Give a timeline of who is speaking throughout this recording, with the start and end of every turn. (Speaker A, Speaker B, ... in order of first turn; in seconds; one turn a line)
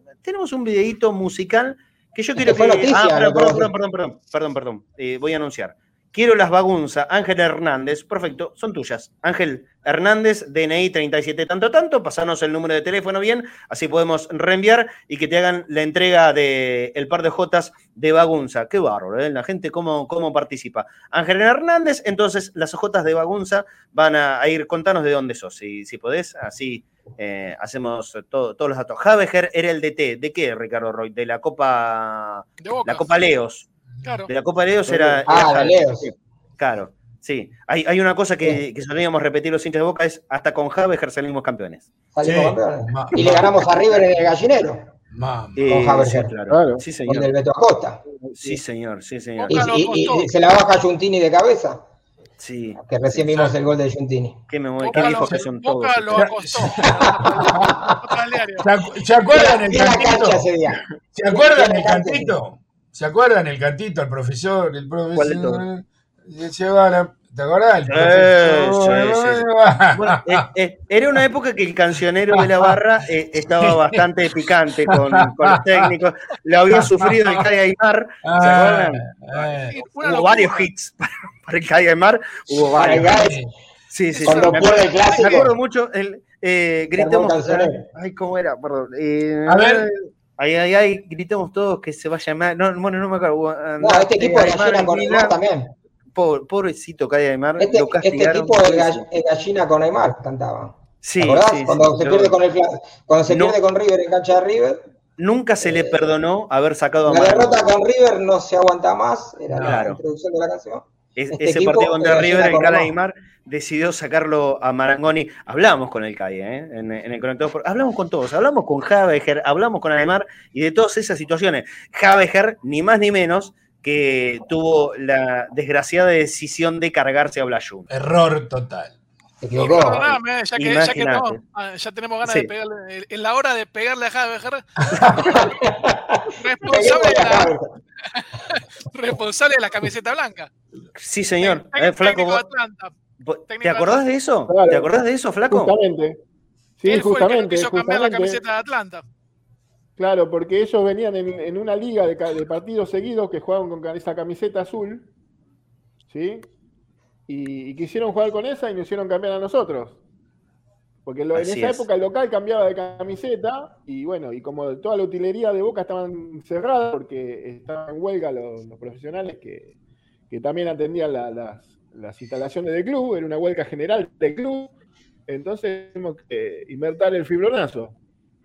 Speaker A: 0.2-33.7
Speaker B: 2.4-3.7
Speaker C: 32.6-33.2
Speaker C: 34.0-34.3
Speaker A: 34.3-41.9
Speaker D: 34.9-35.2
Speaker B: 35.3-36.1
Speaker B: 42.1-44.9
Speaker E: 42.2-43.5
Speaker E: 45.1-45.6
Speaker A: 45.5-47.3
Speaker B: 45.7-46.3
Speaker D: 46.5-46.8
Speaker B: 47.1-48.0
Speaker D: 48.2-48.6
Speaker A: 48.4-49.6
Speaker C: 49.5-50.3
Speaker B: 49.5-51.8
Speaker A: 52.4-53.5
Speaker B: 52.8-54.4
Speaker A: 54.5-56.4
Speaker C: 54.8-58.7
Speaker E: 55.0-55.4
Speaker E: 56.1-57.8
Speaker B: 57.4-57.9
Speaker E: 58.6-60.4
Speaker B: 59.3-62.3
Speaker E: 61.1-70.4
Speaker A: 65.1-65.7
Speaker A: 67.9-79.1
Speaker E: 72.4-72.7
Speaker E: 73.6-74.0
Speaker E: 74.9-75.9
Speaker E: 76.7-77.5
Speaker E: 78.2-79.8
Speaker C: 79.3-80.7
Speaker A: 79.9-83.2
Speaker E: 82.7-83.5
Speaker B: 82.7-83.4
Speaker A: 83.9-95.3
Speaker C: 84.1-85.2
Speaker B: 84.2-85.5
Speaker B: 86.9-87.9
Speaker E: 89.5-89.9
Speaker B: 93.8-95.7
Speaker A: 96.1-99.0
Speaker B: 97.6-104.8
Speaker A: 101.0-102.4
Speaker A: 103.3-103.6
Speaker A: 105.2-107.7
Speaker B: 105.6-106.0
Speaker B: 107.1-112.9
Speaker A: 109.5-110.0
Speaker A: 111.2-127.9
Speaker E: 127.9-128.9
Speaker B: 129.4-130.2
Speaker C: 129.6-135.5
Speaker A: 130.5-131.4
Speaker A: 132.2-132.5
Speaker B: 135.2-137.7
Speaker C: 136.4-137.5
Speaker C: 138.1-140.5
Speaker A: 140.9-142.4
Speaker C: 141.4-142.9
Speaker A: 143.2-145.8
Speaker C: 143.5-144.0
Speaker D: 144.5-144.9
Speaker D: 145.5-146.2
Speaker D: 146.8-148.4
Speaker C: 146.8-149.0
Speaker D: 150.0-155.1
Speaker D: 156.1-156.5
Speaker D: 157.3-160.0
Speaker D: 161.1-169.7
Speaker A: 161.3-161.9
Speaker D: 170.3-174.7
Speaker D: 175.3-177.9